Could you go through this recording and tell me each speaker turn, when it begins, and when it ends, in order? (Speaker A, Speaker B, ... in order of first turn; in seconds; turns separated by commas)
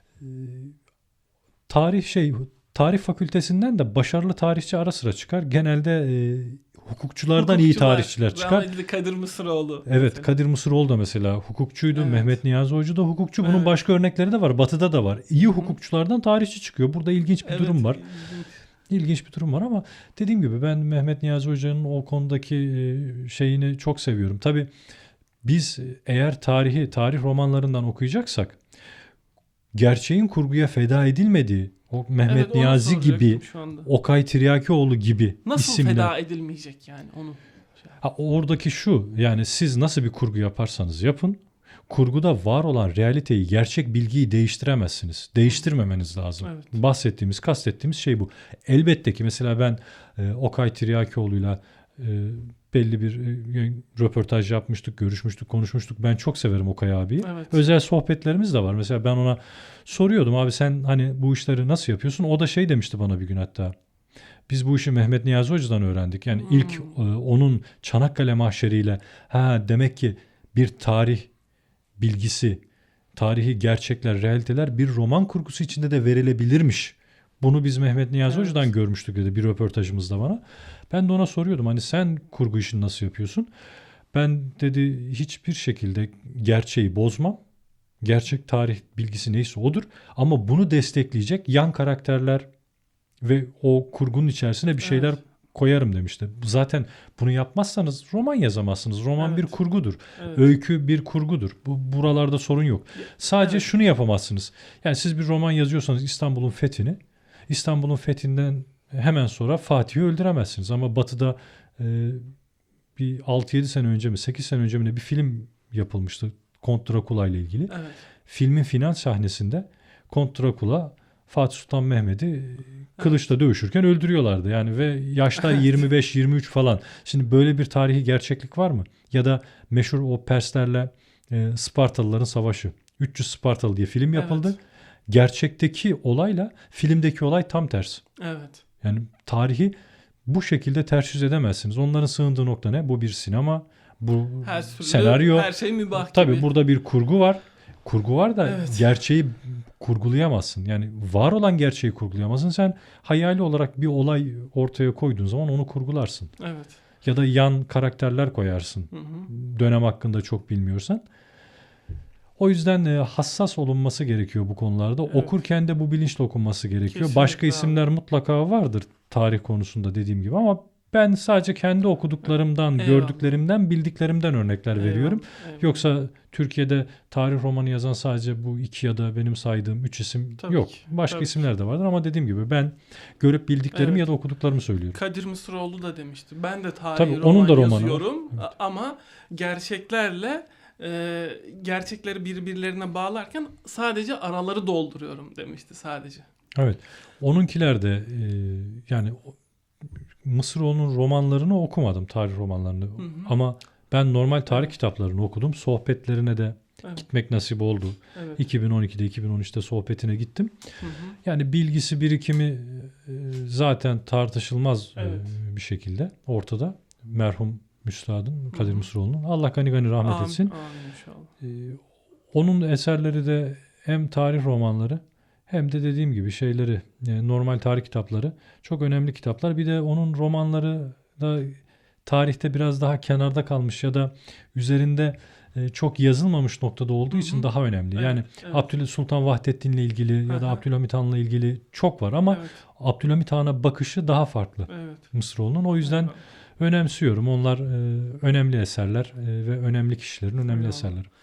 Speaker A: 0.2-0.8, Speaker A: 1.7-8.7, Speaker B: 7.3-10.3, Speaker A: 9.8-18.0, Speaker B: 11.9-12.4, Speaker B: 13.4-13.8, Speaker B: 15.4-15.7, Speaker B: 17.4-18.6, Speaker A: 18.9-24.7, Speaker A: 25.4-28.6, Speaker A: 29.7-36.1, Speaker B: 32.2-33.9, Speaker B: 35.4-38.0, Speaker A: 38.0-63.7, Speaker B: 46.4-46.8, Speaker B: 57.2-57.6, Speaker A: 64.5-71.3, Speaker B: 66.3-66.9, Speaker A: 72.0-72.6, Speaker A: 73.2-83.5, Speaker B: 78.3-78.7, Speaker A: 84.1-87.4, Speaker A: 88.0-92.5, Speaker A: 93.2-112.2, Speaker B: 94.8-95.2, Speaker B: 99.2-99.6, Speaker B: 100.2-100.5, Speaker B: 103.0-103.7, Speaker A: 113.0-138.0, Speaker B: 117.7-118.0, Speaker B: 125.4-125.7, Speaker B: 134.1-134.6, Speaker B: 138.2-138.6, Speaker A: 138.8-139.7, Speaker A: 140.2-156.3, Speaker B: 144.4-146.5, Speaker B: 148.4-148.9, Speaker B: 156.4-156.8, Speaker A: 157.0-161.0, Speaker B: 158.9-159.3, Speaker A: 162.4-185.0, Speaker B: 165.1-165.3, Speaker B: 166.9-167.8, Speaker B: 172.2-173.3, Speaker B: 174.8-175.8, Speaker B: 180.4-181.4, Speaker B: 183.7-184.1, Speaker B: 184.9-196.3, Speaker A: 186.9-188.4, Speaker A: 196.5-199.3, Speaker A: 200.2-210.6, Speaker B: 203.0-203.3, Speaker B: 204.5-204.7, Speaker B: 208.1-208.4, Speaker B: 210.8-211.2, Speaker A: 211.2-220.5, Speaker B: 214.9-215.3, Speaker B: 218.5-218.9, Speaker B: 220.0-221.3, Speaker A: 221.4-251.1, Speaker B: 237.1-238.7, Speaker B: 240.3-240.6, Speaker B: 242.3-242.6, Speaker B: 244.7-245.1, Speaker B: 245.8-246.2, Speaker B: 250.5-251.0